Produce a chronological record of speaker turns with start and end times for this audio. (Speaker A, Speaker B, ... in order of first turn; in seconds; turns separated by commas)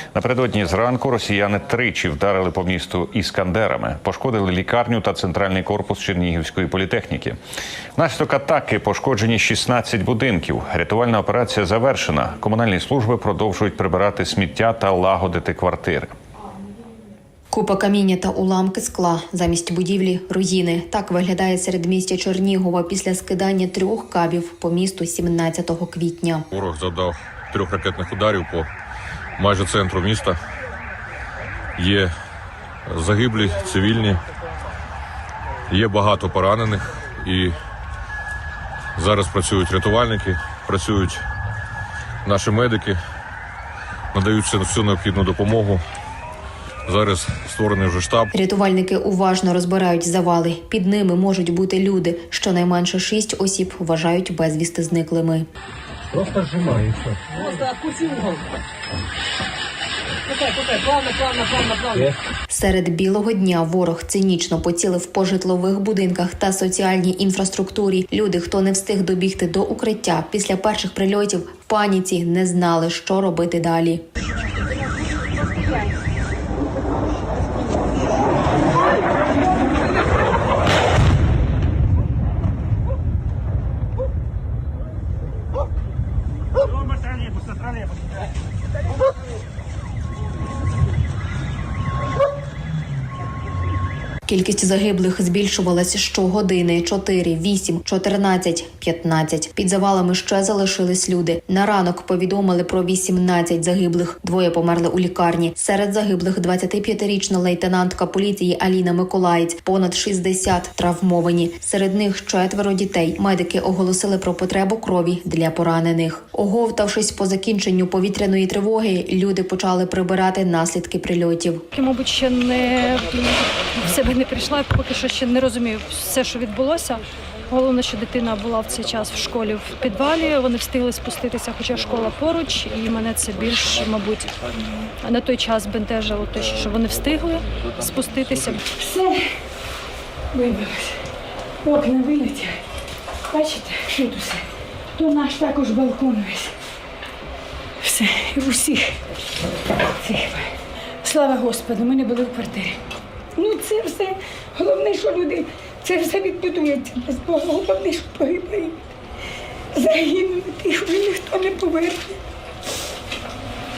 Speaker A: 0.1-7.4, Speaker A: 8.0-16.1, Speaker B: 17.5-26.4, Speaker C: 26.5-28.7, Speaker C: 29.4-30.4, Speaker C: 31.8-32.1, Speaker C: 32.9-34.2, Speaker C: 35.7-37.6, Speaker C: 39.0-41.2, Speaker C: 42.2-43.0, Speaker C: 44.1-45.8, Speaker C: 46.9-48.3, Speaker B: 48.3-55.5, Speaker D: 57.3-58.4, Speaker D: 60.3-62.1, Speaker B: 62.5-74.0, Speaker B: 94.3-121.6, Speaker E: 121.7-127.0, Speaker E: 127.5-134.4, Speaker E: 135.0-138.6, Speaker F: 138.8-139.3, Speaker F: 140.3-141.0, Speaker F: 141.6-142.6, Speaker F: 143.3-146.5, Speaker F: 147.8-149.0, Speaker F: 150.0-152.8, Speaker F: 153.4-158.8, Speaker F: 159.7-162.2